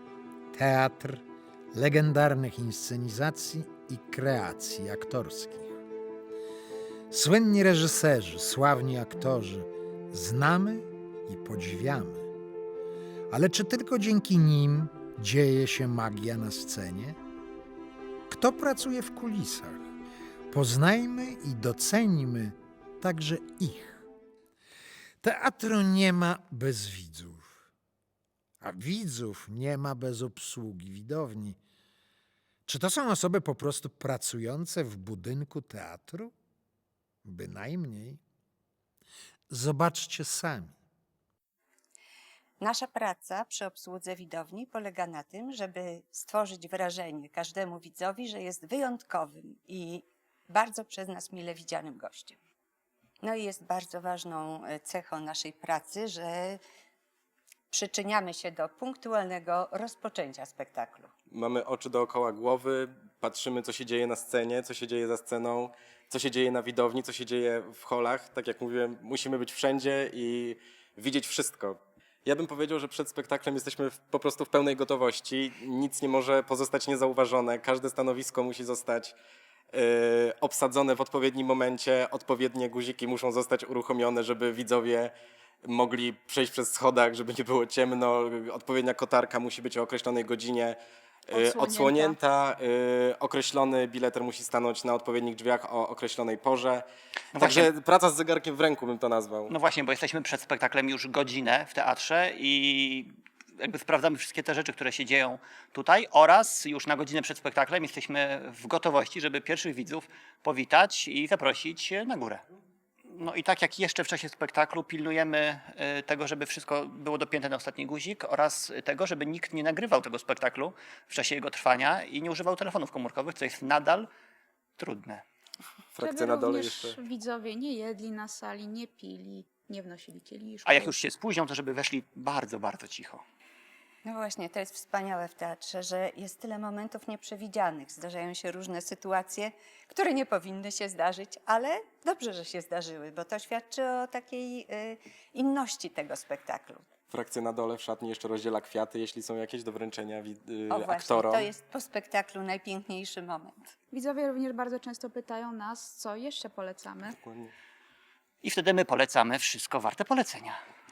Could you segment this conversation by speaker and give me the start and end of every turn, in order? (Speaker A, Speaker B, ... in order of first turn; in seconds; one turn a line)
Speaker A: 0.5-5.8
Speaker A: 7.1-12.3
Speaker A: 13.3-17.2
Speaker A: 18.3-19.8
Speaker A: 20.5-24.0
Speaker A: 25.2-27.6
Speaker A: 28.6-31.6
Speaker A: 32.7-36.3
Speaker A: 37.2-38.2
Speaker A: 39.5-40.8
Speaker B: 42.6-52.4
Speaker B: 53.2-56.6
Speaker B: 57.7-61.1
Speaker C: 61.3-79.2
Speaker C: 79.7-85.1
Speaker C: 85.6-99.5
Speaker D: 91.3-92.2
Speaker E: 97.3-97.7
Speaker E: 99.5-112.4
Speaker E: 113.1-124.1
Speaker E: 124.8-125.2
Speaker C: 125.9-127.0
Speaker D: 126.0-130.9
Speaker E: 130.7-133.2
Speaker B: 134.0-146.9
Speaker C: 147.1-151.5
Speaker B: 150.7-153.6
Speaker D: 153.9-157.2
Speaker C: 157.2-157.5
Speaker E: 158.4-160.6